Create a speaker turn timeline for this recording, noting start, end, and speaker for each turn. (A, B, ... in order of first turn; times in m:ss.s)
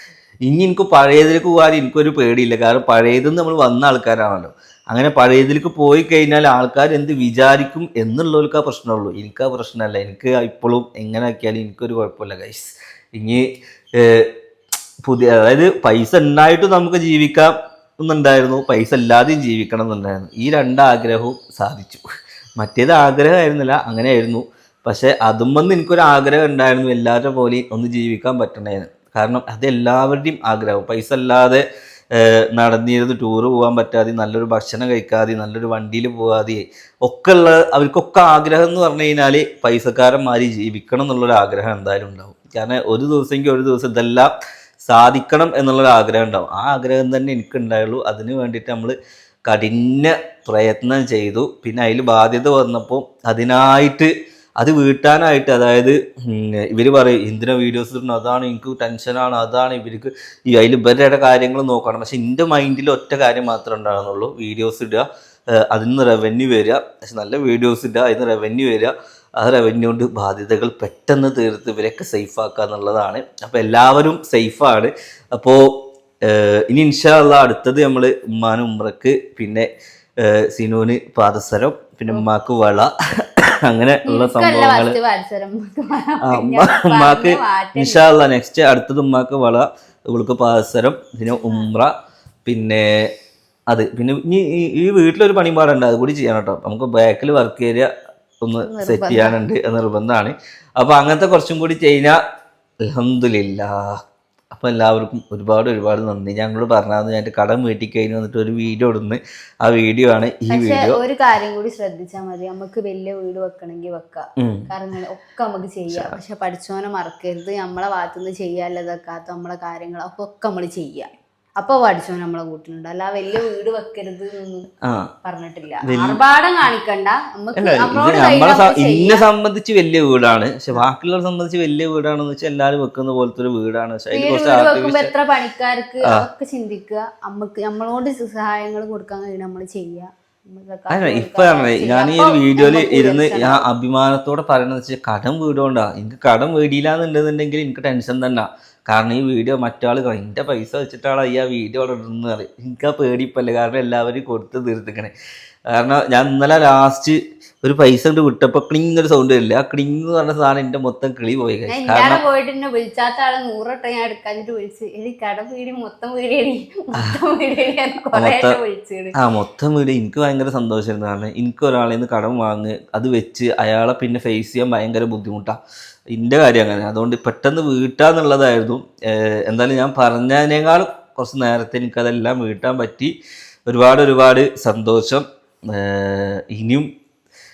0:00.4-0:14.3 A
0:15.0-0:22.0 A
0:22.6-0:44.3 A
0:44.8-1:15.7 A
1:16.2-1:19.7 A
1:20.2-1:25.0 A
1:24.0-1:28.1 B
1:26.2-1:31.9 A
1:31.3-1:31.7 B
1:32.4-1:33.0 A
1:33.7-1:37.9 A
1:38.4-1:42.2 A
1:38.6-1:39.4 B
1:42.9-1:43.9 A
1:44.5-1:51.0 A
1:50.5-2:04.7 B
1:54.4-1:54.7 A
2:04.8-2:05.1 A
2:05.2-2:09.2 B
2:05.8-2:06.2 A
2:07.6-2:15.1 A
2:14.1-2:23.6 B
2:20.9-2:35.1 A
2:35.7-2:42.2 A
2:41.7-2:49.1 B
2:48.1-2:48.6 A
2:49.2-2:55.6 A
2:56.1-3:03.1 A
3:03.7-3:06.9 A